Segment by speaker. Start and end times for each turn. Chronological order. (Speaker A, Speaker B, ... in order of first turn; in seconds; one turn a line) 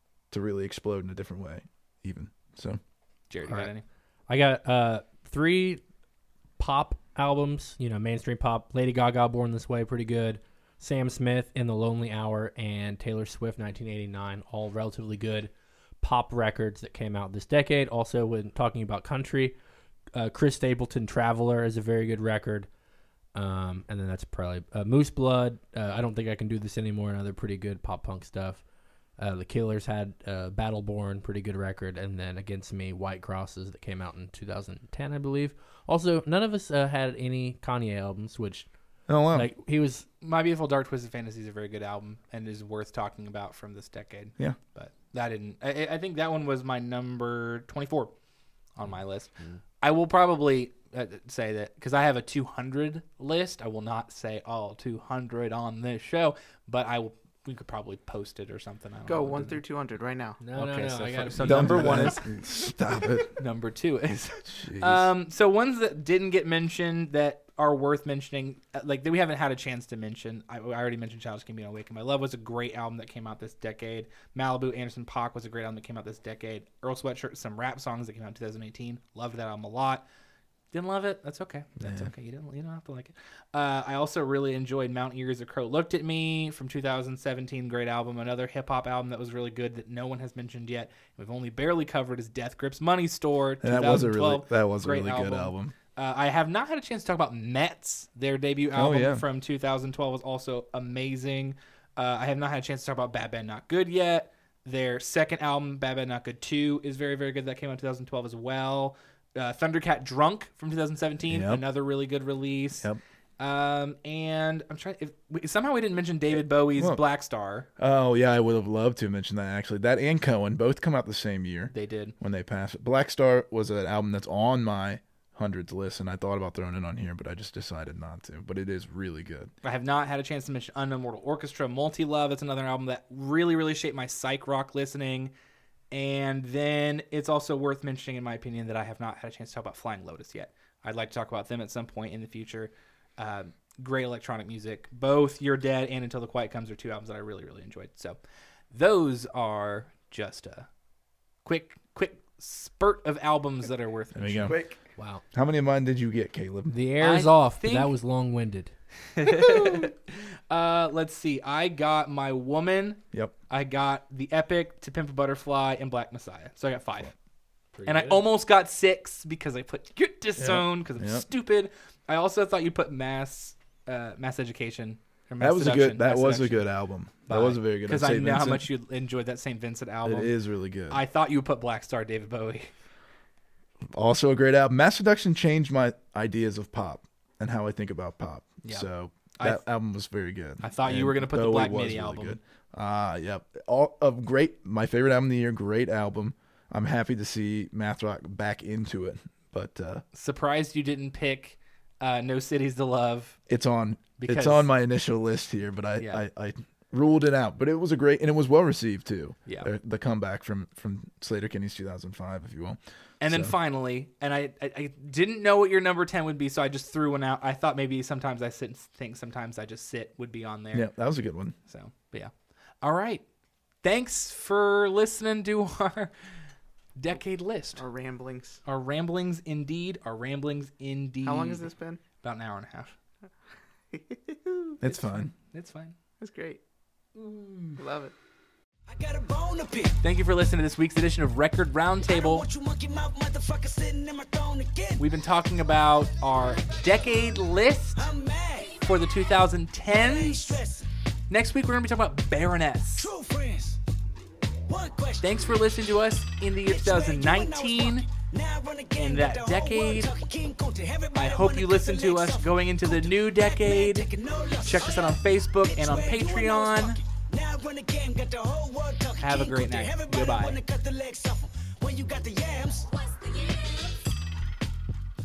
Speaker A: 0.3-2.8
Speaker B: 3.3-3.8
Speaker C: 4.3-5.8
Speaker C: 6.6-19.6
Speaker C: 20.1-22.7
Speaker C: 23.3-28.6
Speaker C: 29.2-38.7
Speaker A: 39.1-39.5
Speaker C: 39.3-40.1
Speaker B: 40.2-48.1
Speaker B: 48.7-59.6
Speaker D: 59.0-60.4
Speaker C: 60.4-62.2
Speaker B: 60.5-62.3
Speaker A: 61.4-63.3
Speaker B: 63.3-80.1
Speaker A: 64.4-65.1
Speaker B: 80.7-112.9
Speaker A: 81.8-82.1
Speaker A: 93.6-95.7
Speaker A: 98.7-99.2
Speaker A: 111.3-111.6
Speaker B: 113.4-117.7
Speaker A: 116.7-117.0
Speaker A: 117.8-129.5
Speaker B: 121.7-122.1
Speaker B: 129.6-135.3
Speaker B: 135.9-148.2
Speaker B: 148.7-150.7
Speaker B: 151.4-154.5
Speaker A: 154.1-154.6
Speaker D: 154.5-154.7
Speaker C: 155.0-155.2
Speaker A: 155.3-156.7
Speaker C: 156.7-158.7
Speaker B: 157.0-157.9
Speaker B: 159.2-160.0
Speaker B: 160.5-167.1
Speaker C: 167.7-168.2
Speaker B: 167.8-176.7
Speaker A: 170.4-171.2
Speaker A: 175.4-178.7
Speaker B: 177.3-180.3
Speaker A: 180.0-181.0
Speaker B: 180.9-182.7
Speaker A: 183.9-200.0
Speaker B: 188.6-189.6
Speaker B: 190.6-192.4
Speaker B: 200.1-203.4
Speaker A: 203.5-213.5
Speaker B: 204.2-204.7
Speaker B: 206.0-206.2
Speaker B: 213.2-220.9
Speaker A: 220.7-221.5
Speaker B: 221.7-223.2
Speaker B: 223.8-226.1
Speaker B: 227.0-227.8
Speaker D: 227.8-228.6
Speaker B: 228.7-231.7
Speaker D: 231.2-232.0
Speaker B: 232.2-232.9
Speaker D: 233.9-235.3
Speaker A: 234.8-235.3
Speaker B: 235.5-235.9
Speaker D: 236.2-236.6
Speaker D: 237.8-238.1
Speaker E: 238.9-240.0
Speaker B: 240.0-242.4
Speaker E: 242.1-245.0
Speaker B: 244.9-248.1
Speaker E: 248.0-248.8
Speaker B: 248.7-250.6
Speaker E: 249.9-250.8
Speaker B: 251.3-253.1
Speaker E: 253.0-253.8
Speaker E: 254.7-255.3
Speaker B: 255.2-258.1
Speaker E: 256.7-272.9
Speaker B: 258.9-260.1
Speaker B: 261.1-267.0
Speaker B: 269.2-270.6